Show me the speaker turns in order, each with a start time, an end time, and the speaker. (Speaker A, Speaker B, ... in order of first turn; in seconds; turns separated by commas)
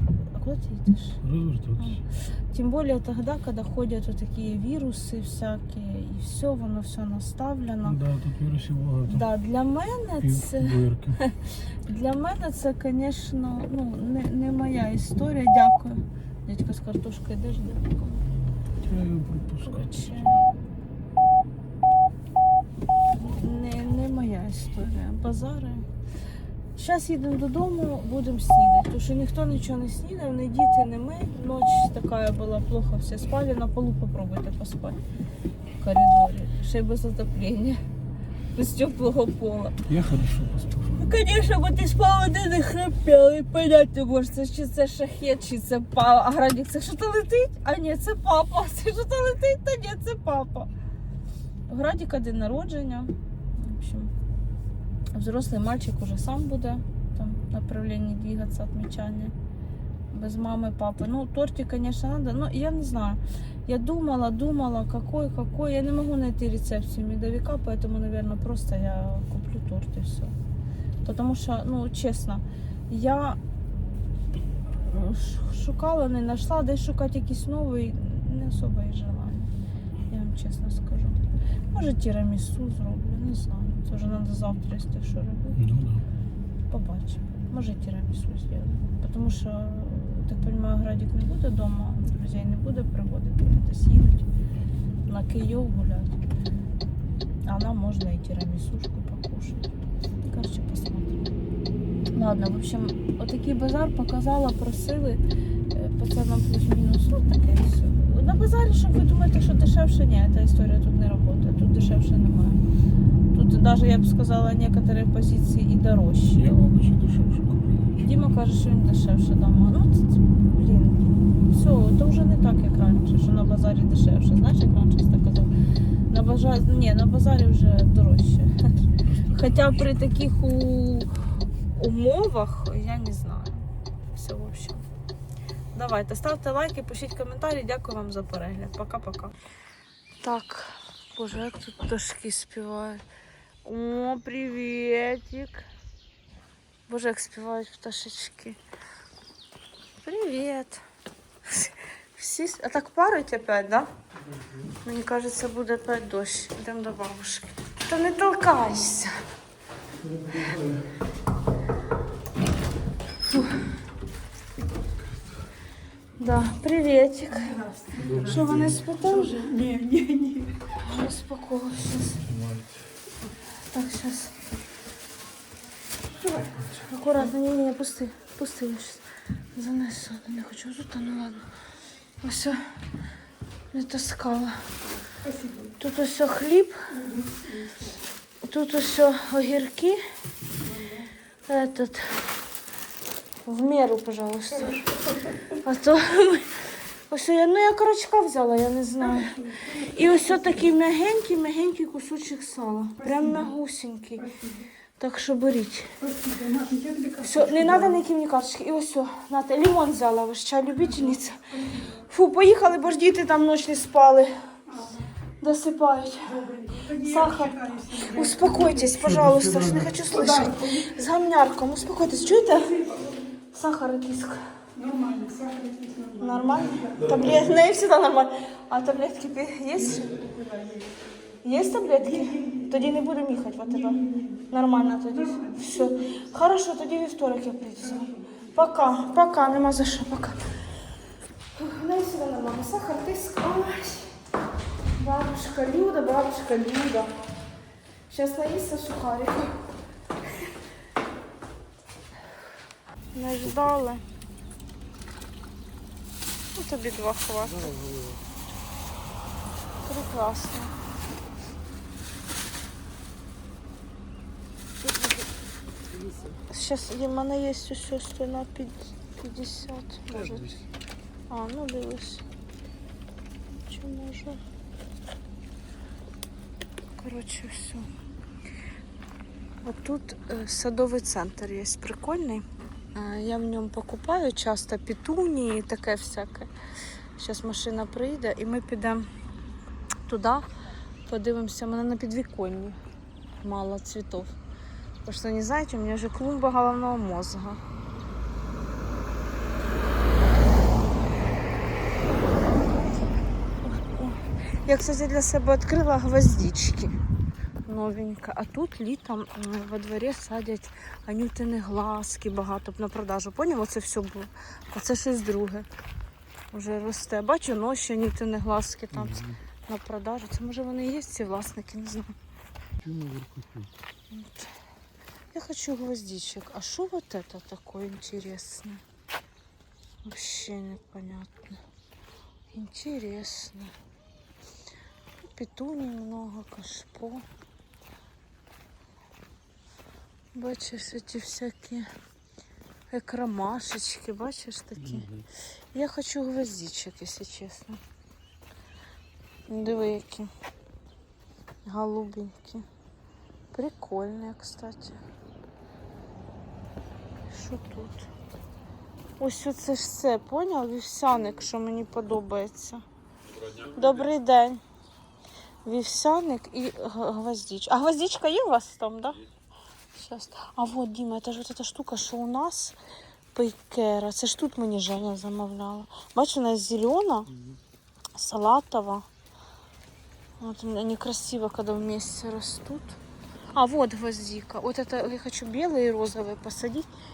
Speaker A: 0.2-1.2, Speaker B: 1.2-2.0, Speaker A: 1.8-8.0, Speaker B: 7.8-9.3, Speaker A: 9.1-18.2, Speaker B: 10.2-11.2, Speaker B: 18.8-20.4, Speaker A: 19.6-20.4, Speaker A: 23.2-25.9, Speaker A: 26.8-35.0, Speaker A: 35.8-37.8, Speaker A: 38.5-39.8, Speaker B: 39.9-41.0, Speaker A: 41.0-50.7, Speaker A: 51.7-54.1, Speaker A: 55.1-59.3, Speaker A: 60.1-70.3, Speaker A: 71.0-73.4, Speaker A: 74.8-79.5, Speaker A: 80.1-81.2, Speaker A: 81.7-85.6, Speaker B: 85.5-86.0, Speaker A: 86.7-94.3, Speaker A: 95.1-96.1, Speaker A: 97.5-99.7, Speaker A: 100.2-101.3, Speaker A: 102.1-105.2, Speaker A: 105.7-112.6, Speaker A: 113.3-116.6, Speaker B: 116.3-118.1, Speaker A: 118.0-125.5, Speaker A: 126.1-128.7, Speaker B: 129.0-129.8, Speaker A: 129.3-134.8, Speaker A: 135.7-139.3, Speaker A: 140.2-143.0, Speaker A: 143.6-145.7, Speaker A: 146.9-148.6, Speaker A: 150.0-150.8, Speaker A: 151.5-153.9, Speaker B: 154.4-154.7, Speaker A: 154.8-159.1, Speaker B: 160.0-160.8, Speaker A: 166.2-167.6, Speaker C: 167.3-168.4, Speaker B: 167.9-168.8, Speaker A: 168.2-169.5, Speaker C: 169.1-170.6, Speaker A: 170.8-172.2, Speaker B: 172.2-172.9, Speaker A: 173.7-174.3, Speaker C: 176.2-176.5, Speaker B: 176.3-176.9, Speaker A: 176.9-179.0, Speaker A: 179.5-181.5, Speaker A: 182.2-182.7, Speaker A: 183.7-184.7, Speaker C: 185.2-185.7, Speaker A: 185.8-186.9, Speaker C: 186.9-187.8, Speaker A: 188.4-190.0, Speaker C: 190.6-191.1, Speaker A: 191.5-192.3, Speaker A: 193.4-194.9, Speaker A: 195.6-204.3, Speaker C: 199.0-200.6, Speaker C: 203.0-203.5, Speaker C: 204.2-204.6, Speaker A: 205.0-205.9, Speaker C: 206.0-208.0, Speaker A: 207.2-211.5, Speaker C: 210.8-212.0, Speaker A: 212.1-214.3, Speaker C: 214.7-215.1, Speaker A: 215.4-216.4, Speaker C: 216.3-219.1, Speaker A: 216.9-222.8, Speaker B: 219.0-219.9, Speaker C: 220.0-221.0, Speaker C: 222.7-223.1, Speaker A: 223.5-224.4, Speaker C: 224.8-227.1, Speaker A: 226.2-230.2, Speaker C: 229.8-231.0, Speaker A: 231.4-240.4, Speaker C: 232.0-232.7, Speaker C: 233.7-234.4, Speaker C: 235.1-235.7, Speaker C: 237.8-238.4, Speaker A: 241.5-244.1, Speaker A: 244.9-247.2, Speaker A: 248.1-249.6, Speaker A: 253.1-254.0, Speaker A: 256.5-257.7, Speaker B: 257.4-258.2, Speaker A: 259.8-260.7, Speaker A: 266.5-270.6, Speaker A: 271.3-272.2, Speaker A: 273.7-274.4, Speaker A: 277.0-277.9, Speaker A: 279.6-286.5, Speaker A: 287.2-289.1, Speaker A: 290.1-290.4, Speaker A: 291.1-292.8, Speaker A: 293.4-294.3, Speaker A: 295.0-297.6, Speaker A: 303.6-307.0, Speaker A: 307.6-315.7, Speaker A: 316.5-322.1, Speaker B: 318.9-319.4, Speaker B: 322.8-323.7, Speaker A: 324.1-324.5, Speaker A: 325.3-328.8, Speaker A: 330.0-331.6, Speaker A: 332.5-333.7, Speaker A: 335.2-337.2, Speaker A: 340.3-341.9, Speaker A: 342.9-345.1, Speaker B: 344.8-345.2, Speaker A: 345.7-347.8, Speaker A: 349.5-350.3, Speaker A: 351.6-352.6, Speaker A: 353.5-355.0, Speaker A: 357.3-358.1, Speaker A: 359.2-362.8, Speaker A: 363.6-364.6, Speaker A: 365.6-369.2, Speaker A: 369.9-372.8, Speaker A: 373.3-377.3, Speaker A: 378.1-379.1, Speaker A: 380.4-383.0, Speaker A: 383.5-386.9